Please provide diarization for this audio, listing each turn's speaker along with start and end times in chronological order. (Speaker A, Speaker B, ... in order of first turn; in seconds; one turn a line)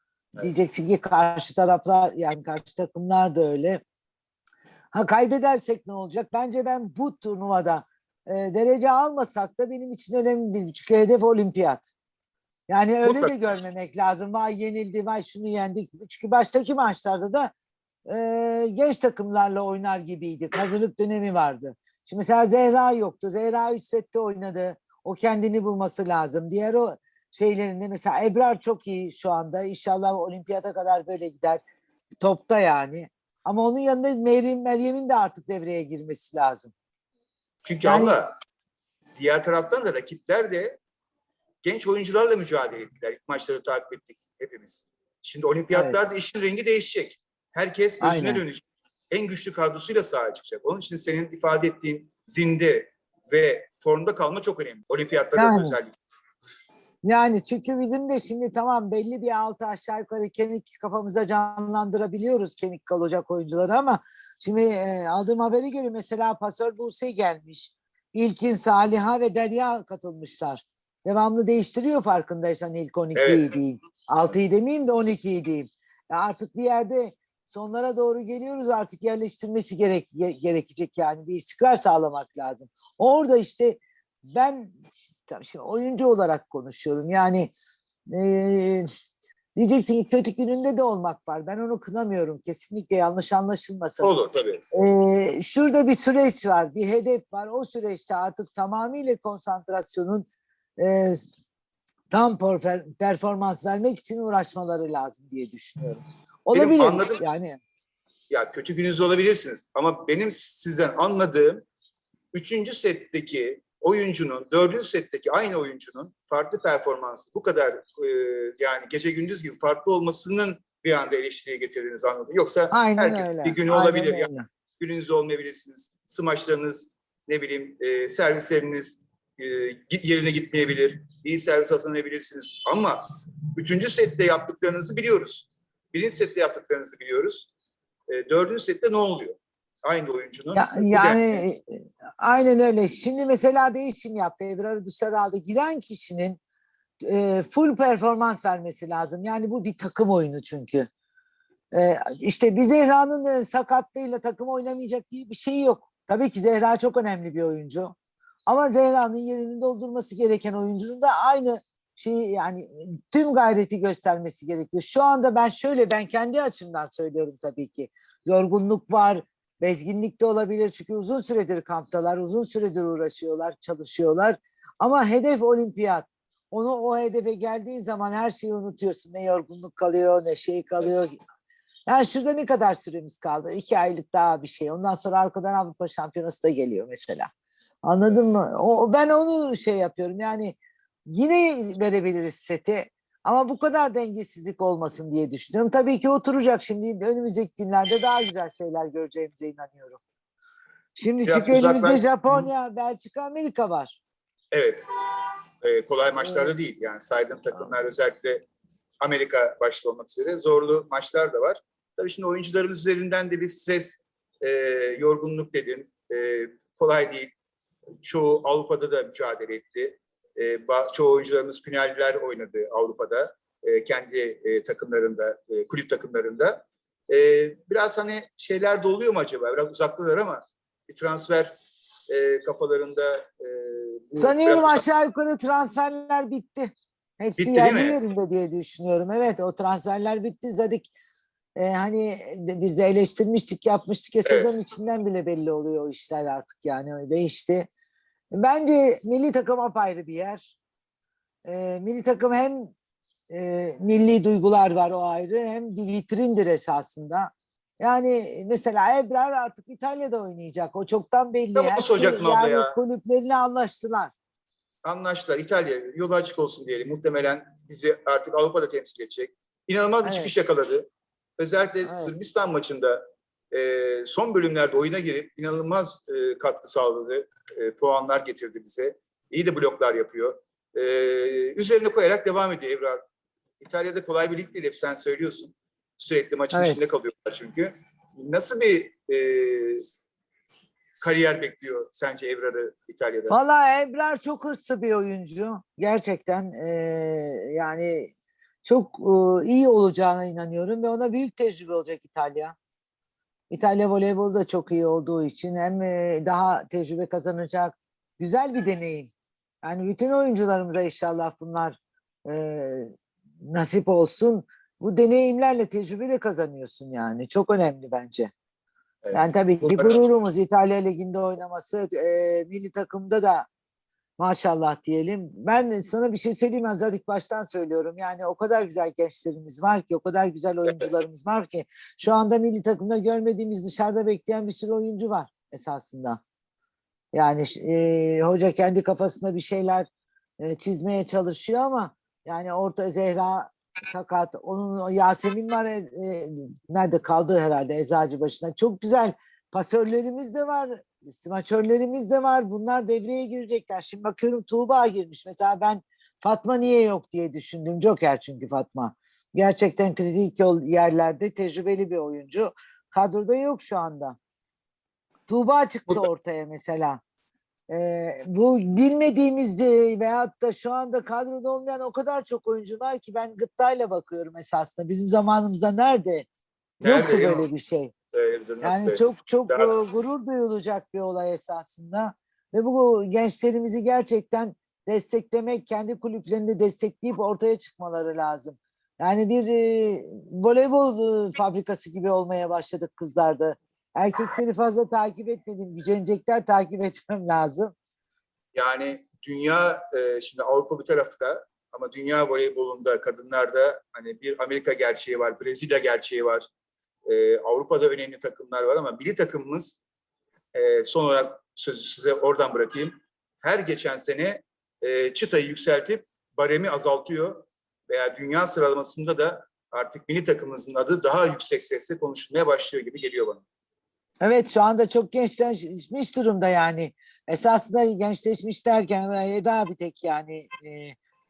Speaker A: 0.4-3.8
Speaker A: 4.9-11.9
Speaker A: 12.7-17.5
Speaker B: 13.0-13.3
Speaker A: 18.1-31.6
Speaker A: 32.2-36.7
Speaker B: 37.6-38.3
Speaker A: 37.8-38.2
Speaker B: 39.2-40.8
Speaker B: 41.6-56.0
Speaker A: 45.7-46.0
Speaker A: 48.0-48.4
Speaker A: 55.4-55.8
Speaker A: 57.0-84.8
Speaker B: 73.1-73.5
Speaker A: 85.3-87.5
Speaker A: 88.1-88.9
Speaker A: 89.5-94.1
Speaker B: 94.0-94.6
Speaker A: 94.7-100.3
Speaker A: 100.8-101.3
Speaker A: 102.1-107.6
Speaker B: 106.5-107.2
Speaker B: 108.3-111.6
Speaker B: 112.3-133.0
Speaker A: 122.7-124.5
Speaker B: 133.5-137.5
Speaker B: 138.1-141.4
Speaker A: 140.5-146.4
Speaker A: 147.0-150.9
Speaker A: 151.7-157.9
Speaker A: 158.4-181.2
Speaker A: 181.9-187.3
Speaker A: 187.8-190.6
Speaker A: 191.1-200.0
Speaker A: 200.9-204.0
Speaker B: 201.2-202.5
Speaker B: 204.5-204.9
Speaker B: 205.6-208.4
Speaker B: 209.0-217.3
Speaker B: 218.0-231.5
Speaker B: 232.1-234.8
Speaker A: 234.1-240.9
Speaker B: 237.4-238.0
Speaker A: 241.6-247.7
Speaker B: 244.2-244.5
Speaker A: 248.3-250.5
Speaker A: 251.4-252.7
Speaker A: 253.3-264.1
Speaker B: 261.5-262.7
Speaker B: 264.8-270.9
Speaker A: 270.0-270.3
Speaker B: 271.4-283.0
Speaker A: 271.8-272.1
Speaker B: 283.6-289.8
Speaker A: 286.5-286.8
Speaker B: 291.0-293.4
Speaker A: 293.3-298.1
Speaker A: 298.6-302.5
Speaker A: 303.5-309.1
Speaker A: 309.6-318.3
Speaker B: 319.0-320.0
Speaker A: 319.1-323.5
Speaker A: 324.2-336.2
Speaker A: 337.1-339.9
Speaker A: 340.4-364.1
Speaker A: 365.3-367.0
Speaker A: 367.7-376.2
Speaker B: 376.8-377.5
Speaker A: 376.8-377.9
Speaker B: 378.1-379.8
Speaker A: 378.6-397.7
Speaker B: 398.5-406.4
Speaker B: 407.1-409.8
Speaker B: 410.5-423.4
Speaker A: 424.2-430.9